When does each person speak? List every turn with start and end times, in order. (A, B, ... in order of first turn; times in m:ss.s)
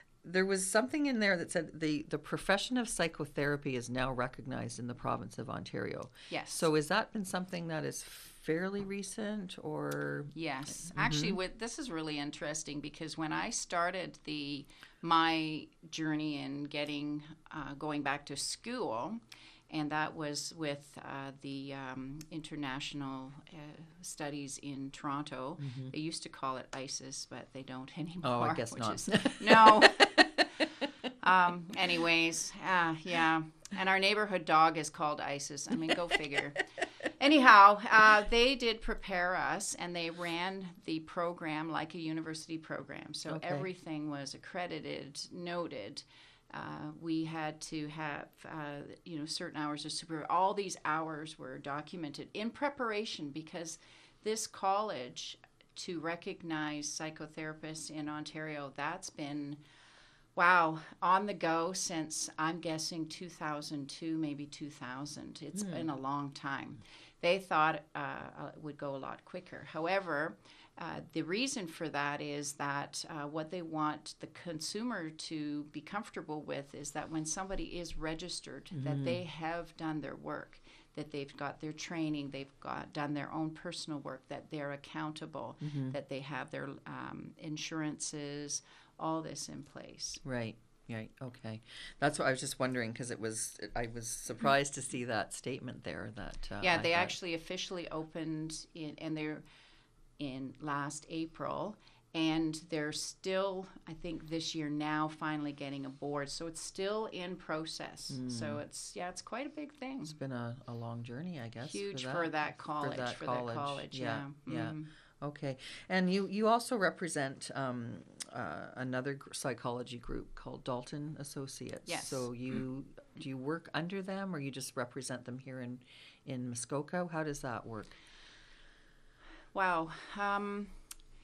0:00.2-0:10.3 A
0:06.3-0:06.7 B
0:10.3-0:30.3 B
0:10.9-0:11.4 A
0:25.6-0:25.9 A
0:28.2-0:30.9 A
0:31.2-0:36.6 B
0:37.2-0:59.6 B
0:43.3-0:43.7 A
1:00.4-1:30.2 B
1:05.6-1:05.9 A
1:18.7-1:19.2 A
1:25.6-1:26.0 A
1:30.2-1:37.2 A
1:36.6-1:39.4 B
1:40.2-1:50.2 B
1:48.1-1:48.6 A
1:50.0-2:08.0 A
1:51.6-1:54.9 B
2:01.9-2:02.3 B
2:09.5-2:10.8 B